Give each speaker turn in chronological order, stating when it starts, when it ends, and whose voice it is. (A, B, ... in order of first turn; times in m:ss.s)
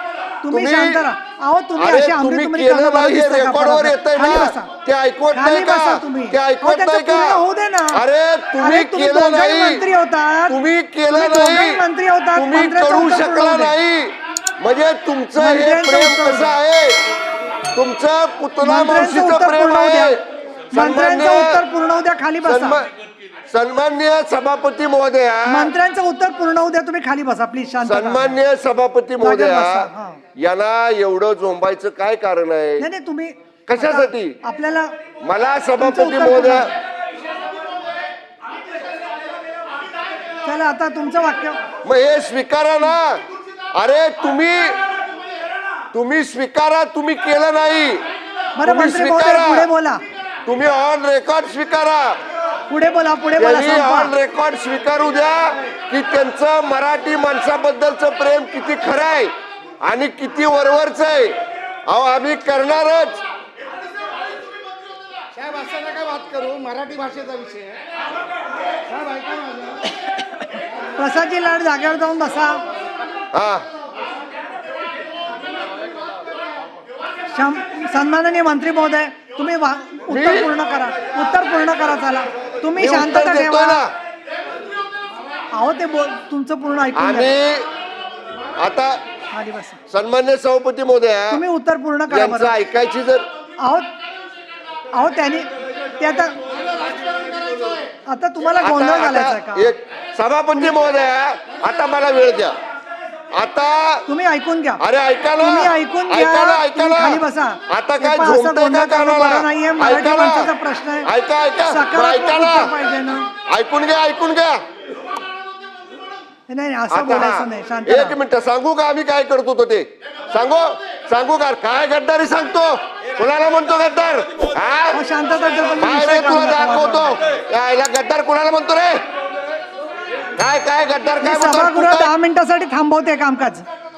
0:00.4-0:04.7 A
0:00.5-0:01.0 B
0:01.8-0:07.4 B
0:05.3-0:08.0 A
0:07.9-0:09.8 B
0:08.6-0:10.6 A
0:10.5-0:11.8 B
0:11.1-0:13.8 A
0:12.4-0:17.0 B
0:15.4-0:16.6 A
0:17.7-0:20.2 B
0:18.6-0:20.2 A
0:20.7-0:22.8 A
0:20.7-0:21.6 B
0:22.4-0:22.9 B
0:23.5-0:25.7 B
0:25.5-0:28.4 A
0:27.8-0:32.9 B
0:29.2-0:30.2 A
0:32.8-0:34.9 A
0:33.7-0:34.4 B
0:35.2-0:36.7 B
0:35.8-0:36.7 A
0:40.4-0:41.6 A
0:41.8-0:43.2 B
0:43.7-0:44.8 B
0:45.9-0:48.0 B
0:48.6-0:50.0 A
0:48.6-0:49.7 B
0:50.5-0:52.2 B
0:52.7-0:54.1 A
0:53.4-1:01.3 B
1:01.9-1:03.2 B
1:05.4-1:07.7 C
1:08.9-1:09.6 C
1:10.4-1:12.6 A
1:13.3-1:13.7 B
1:17.3-1:23.8 A
1:20.1-1:20.5 B
1:22.8-1:23.9 B
1:25.6-1:27.4 A
1:27.0-1:27.7 B
1:28.6-1:29.0 B
1:29.3-1:29.8 A
1:29.9-1:31.4 B
1:31.3-1:32.5 A
1:32.1-1:33.3 B
1:33.6-1:33.9 A
1:35.0-1:35.5 A
1:36.0-1:36.4 A
1:38.1-1:39.7 A
1:38.6-1:42.6 B
1:43.3-1:44.1 B
1:44.1-1:44.8 A
1:44.8-1:50.5 B
1:45.4-1:51.1 A
1:51.1-1:52.7 B
1:51.7-1:53.3 A
1:53.5-1:54.6 B
1:56.5-1:58.2 A
1:56.9-2:05.0 B
2:04.9-2:07.2 A
2:05.8-2:09.0 B
2:10.4-2:12.1 B
2:11.2-2:13.7 A